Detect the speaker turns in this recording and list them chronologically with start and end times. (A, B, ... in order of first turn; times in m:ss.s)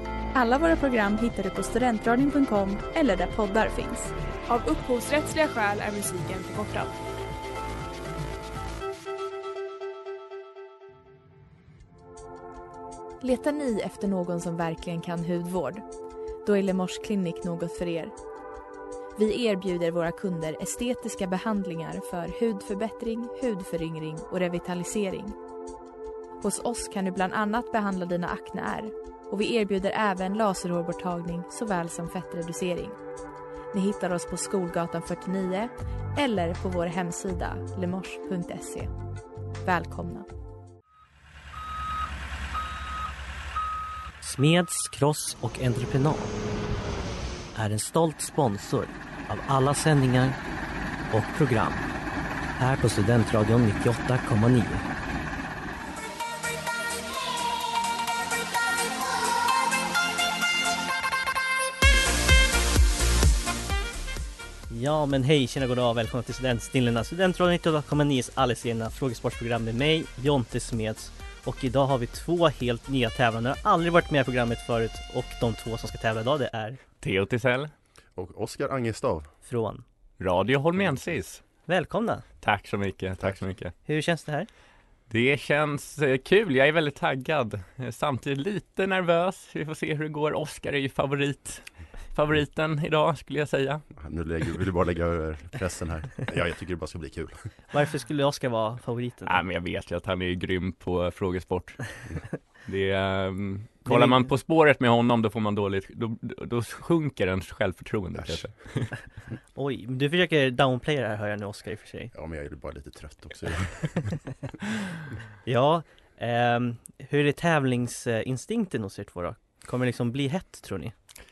0:00.4-0:04.1 A
0:04.5-0:06.9 B
0:13.2-0:15.8 A
0:16.4-0:18.1 A
0:19.2-0:25.4 A
0:26.4-0:33.0 A
0:33.7-0:38.9 A
0:39.6-0:40.3 A
0:44.2-0:46.4 C
0:47.6-0:50.4 C
0:51.1-0:51.9 C
0:52.6-0:54.8 C
1:04.7-1:16.8 C
1:17.0-1:17.7 D
1:18.2-1:19.3 E
1:19.5-1:19.8 C
1:20.2-1:21.4 D
1:21.7-1:22.2 C
1:22.4-1:23.7 D
1:23.9-1:24.5 C
1:25.1-1:33.8 D
1:33.9-1:37.4 E
1:37.7-1:39.4 C
1:39.3-1:41.9 D
1:42.6-1:48.9 D
1:43.9-1:44.3 C
1:48.2-1:48.4 E
1:49.6-1:52.1 C
1:52.1-1:54.1 E
1:55.5-2:00.9 C